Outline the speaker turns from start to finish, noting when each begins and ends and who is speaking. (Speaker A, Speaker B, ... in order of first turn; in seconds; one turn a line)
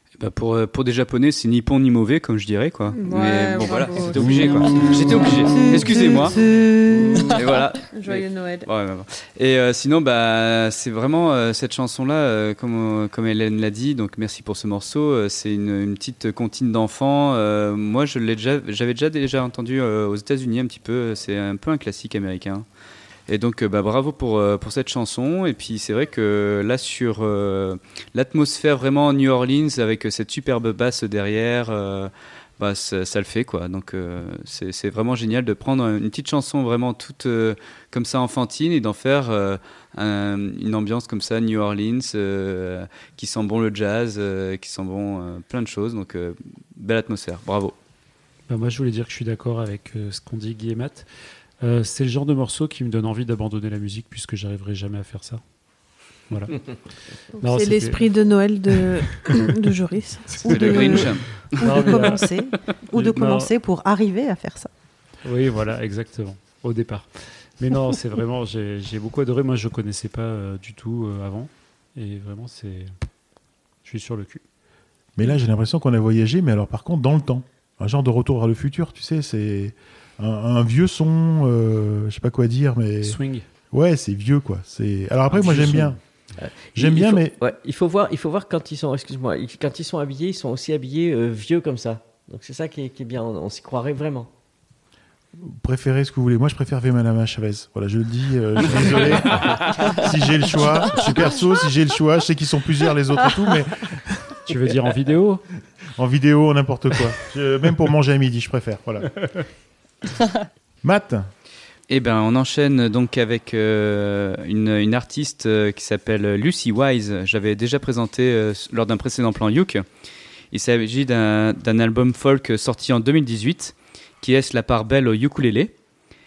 Speaker A: 0.2-6.4
Speaker B: 2.9-7.2
Speaker A: 7.3-22.7
Speaker B: 7.9-8.7
Speaker A: 23.3-47.8
Speaker C: 48.5-51.1
Speaker C: 51.6-55.4
Speaker C: 56.3-56.6
Speaker B: 57.4-61.1
Speaker C: 57.4-58.0
Speaker C: 59.0-59.4
Speaker D: 60.4-64.7
Speaker A: 60.5-61.9
Speaker C: 61.6-62.3
Speaker C: 62.9-63.5
Speaker C: 65.2-72.9
Speaker C: 73.8-74.4
Speaker E: 75.2-86.0
Speaker C: 83.0-83.5
Speaker C: 85.3-86.0
Speaker F: 86.4-94.3
Speaker E: 86.8-87.4
Speaker E: 95.4-104.3
Speaker C: 98.7-99.7
Speaker C: 104.5-105.4
Speaker E: 106.0-109.1
Speaker E: 110.8-111.3
Speaker A: 111.9-119.8
Speaker A: 120.5-125.7